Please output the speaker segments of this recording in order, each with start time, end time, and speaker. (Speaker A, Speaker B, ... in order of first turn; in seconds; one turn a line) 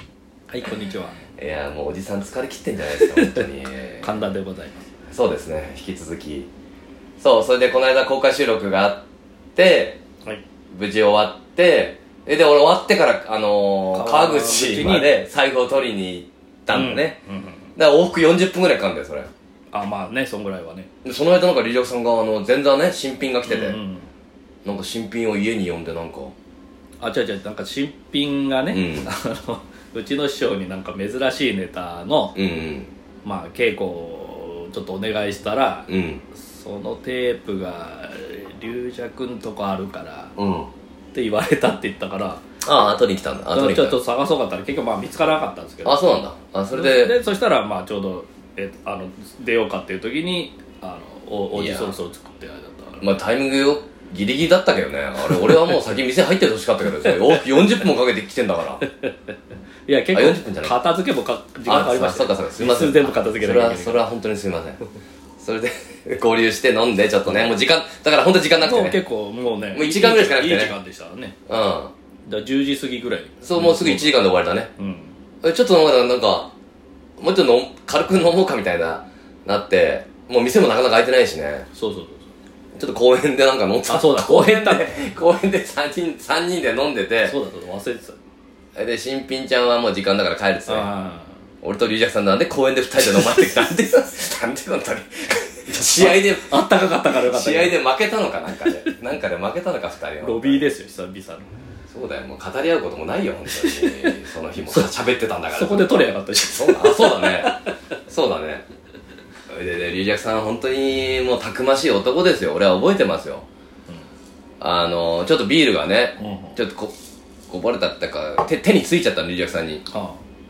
Speaker A: 0.5-1.2
Speaker B: 1.4-4.2
Speaker A: 3.0-3.5
Speaker A: 4.0-4.8
Speaker B: 5.1-6.5
Speaker B: 7.2-10.0
Speaker B: 10.7-17.2
Speaker A: 13.9-15.1
Speaker A: 16.7-17.6
Speaker B: 17.8-19.3
Speaker A: 19.7-20.9
Speaker B: 21.0-23.8
Speaker A: 23.5-24.1
Speaker B: 24.6-26.3
Speaker A: 27.0-32.4
Speaker B: 28.7-29.1
Speaker B: 32.4-32.9
Speaker A: 33.2-40.3
Speaker B: 35.9-36.2
Speaker B: 40.4-40.7
Speaker A: 41.1-42.4
Speaker B: 42.6-44.0
Speaker A: 43.5-46.0
Speaker B: 45.8-47.2
Speaker A: 46.7-53.1
Speaker B: 51.5-52.0
Speaker B: 53.0-58.8
Speaker A: 55.3-55.6
Speaker A: 56.9-57.7
Speaker A: 58.8-59.1
Speaker A: 59.9-64.0
Speaker B: 60.1-60.8
Speaker B: 61.6-64.8
Speaker B: 65.4-69.0
Speaker A: 68.6-71.4
Speaker B: 69.7-70.8
Speaker B: 71.5-71.9
Speaker A: 72.3-74.2
Speaker B: 73.4-74.7
Speaker A: 74.8-75.1
Speaker B: 75.4-76.5
Speaker B: 77.2-81.7
Speaker A: 81.7-82.2
Speaker B: 82.8-87.3
Speaker A: 83.9-85.0
Speaker A: 87.2-88.2
Speaker B: 88.8-90.9
Speaker A: 90.7-91.3
Speaker B: 91.6-100.7
Speaker A: 93.1-93.7
Speaker A: 95.8-97.8
Speaker A: 100.2-101.6
Speaker B: 101.9-107.5
Speaker A: 103.5-104.9
Speaker A: 105.5-107.7
Speaker B: 108.1-108.7
Speaker B: 109.5-113.5
Speaker B: 114.6-116.9
Speaker A: 116.2-116.6
Speaker B: 117.5-119.8
Speaker A: 119.9-120.2